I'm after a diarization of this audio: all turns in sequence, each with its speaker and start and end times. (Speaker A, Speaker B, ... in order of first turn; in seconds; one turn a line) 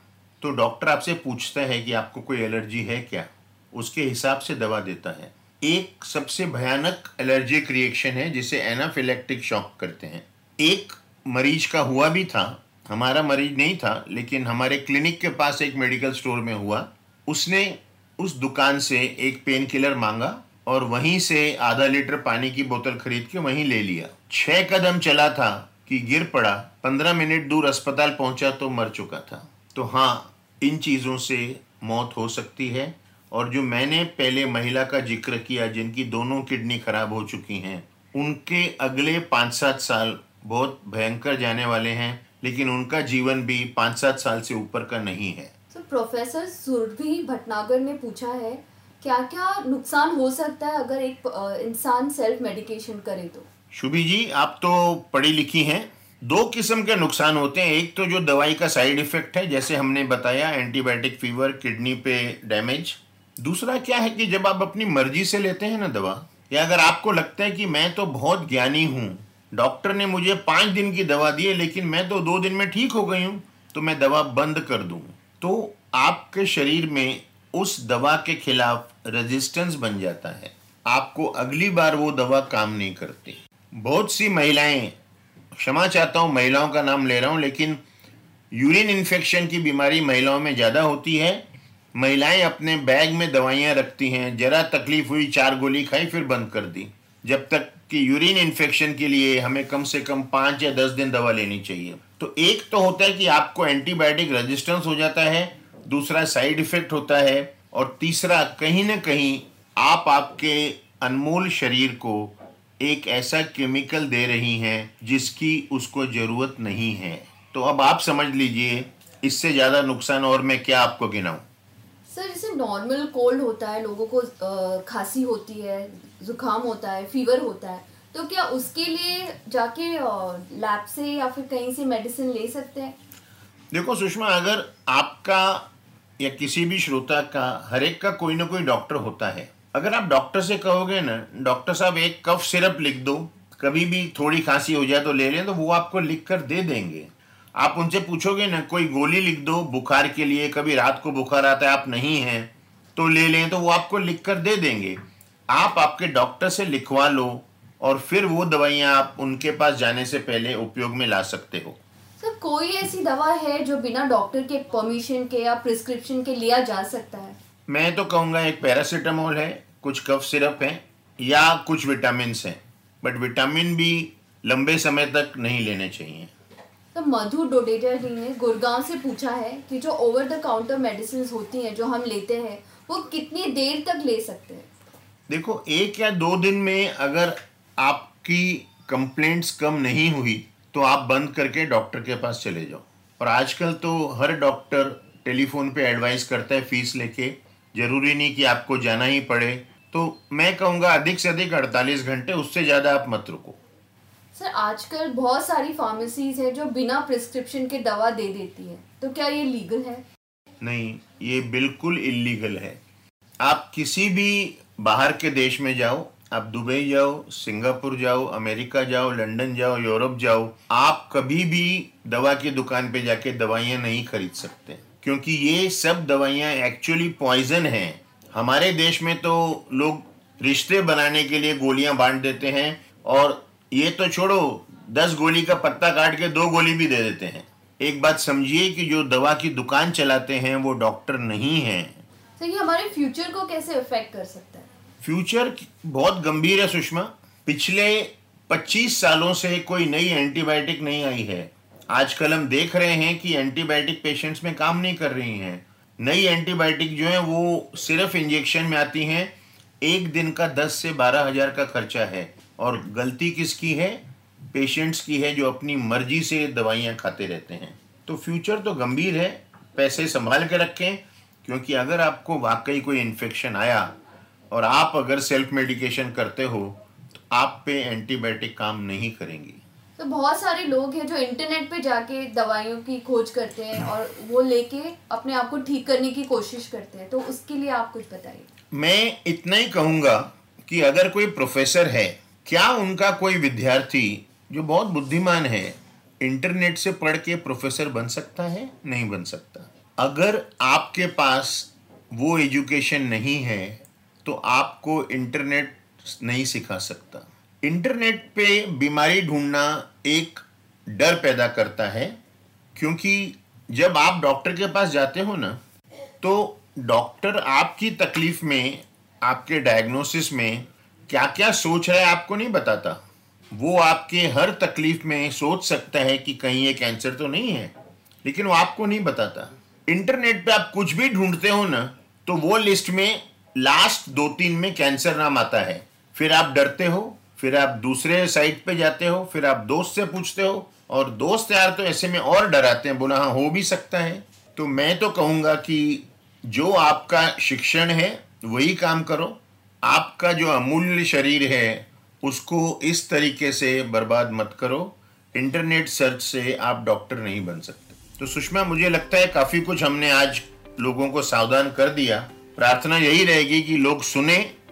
Speaker A: 0.4-45.5
Speaker B: 45.7-53.5
Speaker A: 53.7-84.9
Speaker A: 85.6-87.8
Speaker A: 88.5-91.4
Speaker A: 92.0-121.4
Speaker B: 122.1-133.0
Speaker A: 133.7-135.7
Speaker A: 136.2-155.0
Speaker A: 155.5-161.8
Speaker B: 162.2-167.4
Speaker A: 167.7-176.3
Speaker B: 176.9-184.7
Speaker A: 185.3-203.6
Speaker B: 204.3-210.0
Speaker A: 210.6-212.8
Speaker A: 213.4-242.0
Speaker B: 242.4-244.7
Speaker A: 245.0-273.9
Speaker A: 274.5-276.8
Speaker A: 277.3-279.6
Speaker B: 280.0-288.5
Speaker A: 288.7-312.1
Speaker A: 312.8-315.6
Speaker A: 316.2-323.0
Speaker A: 323.5-327.7
Speaker A: 328.2-364.5